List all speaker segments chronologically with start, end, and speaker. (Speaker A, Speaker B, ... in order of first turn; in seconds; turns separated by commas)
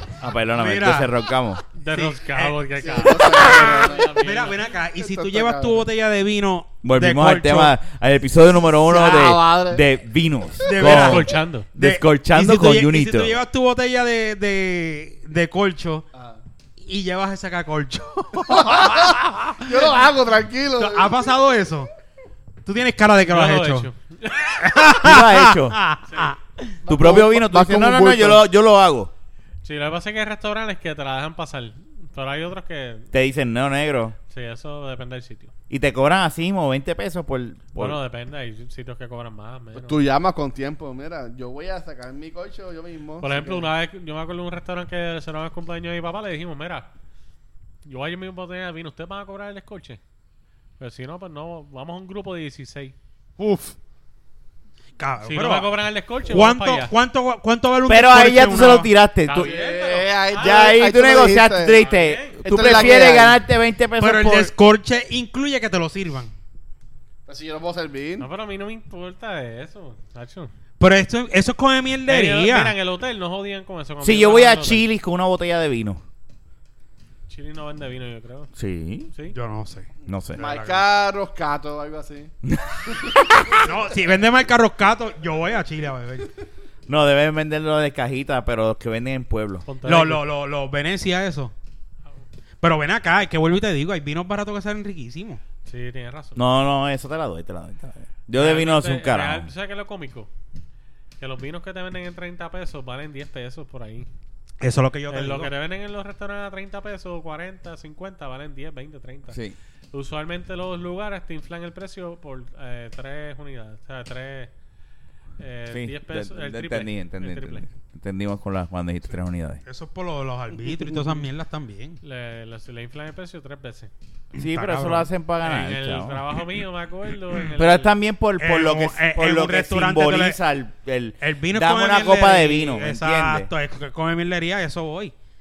Speaker A: 0.2-1.6, Speaker B: 0.6-1.1, Speaker C: 1.8-4.6, Speaker B: 1.9-2.6, Speaker D: 2.8-4.1, Speaker A: 3.3-3.8, Speaker B: 3.3-7.8, Speaker D: 5.0-5.9, Speaker A: 6.8-13.4, Speaker D: 8.9-9.8, Speaker B: 10.7-16.1, Speaker C: 10.8-11.7, Speaker B: 16.8-20.0, Speaker D: 18.5-21.2, Speaker B: 20.8-21.9, Speaker B: 22.7-26.4, Speaker C: 23.3-24.7, Speaker A: 25.0-25.8, Speaker C: 26.1-26.4, Speaker D: 26.9-28.4, Speaker A: 26.9-29.1, Speaker C: 29.6-33.1, Speaker A: 33.1-34.2, Speaker C: 34.3-35.5, Speaker A: 35.7-38.0, Speaker C: 37.8-40.0, Speaker D: 39.7-43.7, Speaker C: 43.2-46.9, Speaker C: 47.9-50.0, Speaker C: 50.8-53.0, Speaker D: 53.4-53.7, Speaker B: 55.0-55.7, Speaker C: 55.2-56.9, Speaker B: 56.2-58.9, Speaker A: 57.9-59.5, Speaker C: 59.2-60.7, Speaker D: 59.3-61.8, Speaker A: 60.3-64.5, Speaker C: 61.7-62.8, Speaker D: 62.4-63.4, Speaker B: 64.0-66.3, Speaker D: 67.3-68.3, Speaker C: 68.2-70.5, Speaker B: 70.8-72.8, Speaker C: 72.1-74.8, Speaker A: 74.0-76.0, Speaker C: 77.3-78.5, Speaker A: 78.6-79.1, Speaker B: 79.3-80.8, Speaker A: 80.1-80.4, Speaker D: 80.4-82.3, Speaker A: 82.4-83.7, Speaker D: 82.9-83.6, Speaker B: 83.6-86.3, Speaker A: 86.9-89.7, Speaker C: 89.7-90.2, Speaker B: 89.8-91.5, Speaker B: 92.6-95.4, Speaker C: 95.7-96.4, Speaker A: 96.4-99.5, Speaker C: 98.3-100.3, Speaker C: 101.2-104.1, Speaker B: 104.6-105.5, Speaker C: 105.1-109.4, Speaker C: 109.9-114.5, Speaker C: 115.4-117.7, Speaker A: 115.7-119.6, Speaker B: 119.7-122.0, Speaker C: 122.0-123.9, Speaker B: 124.3-125.1, Speaker A: 124.4-126.2, Speaker C: 125.4-127.9, Speaker A: 127.6-133.5, Speaker B: 128.4-130.4, Speaker B: 131.2-135.1